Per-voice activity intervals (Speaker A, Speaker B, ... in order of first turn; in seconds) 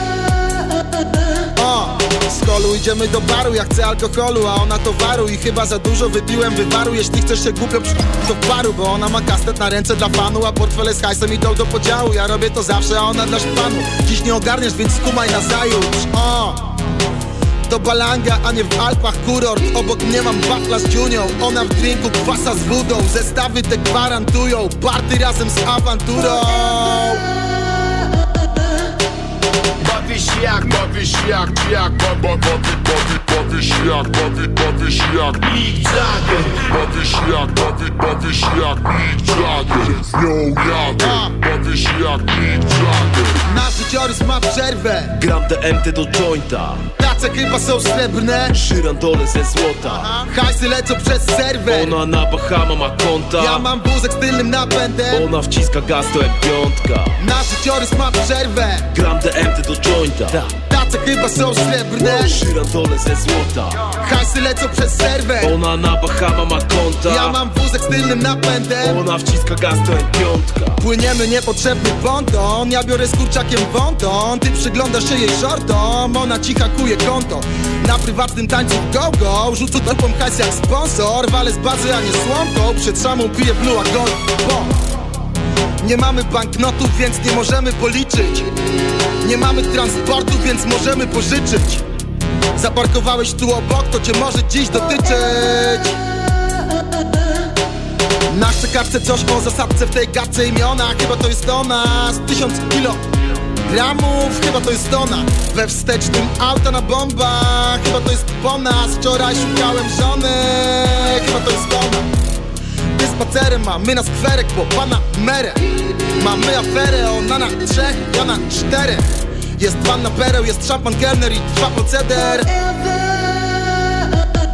Speaker A: 1.6-16.6, 17.7-27.2, 41.0-41.3, 43.5-45.1, 47.0-48.5, 50.1-52.0, 53.4-55.3, 57.2-58.9, 60.7-62.4, 64.0-65.5, 67.1-69.0, 70.8-84.7, 85.8-88.5, 89.2-91.8, 92.6-96.0, 98.3-103.0, 103.7-112.1, 113.0-115.6, 116.1-119.0, 119.6-122.5
Speaker B: 29.8-43.4
Speaker C: 45.1-46.9, 48.5-50.1, 51.7-53.6, 55.1-57.2, 58.9-60.5, 62.0-63.9, 65.4-67.4, 68.8-70.8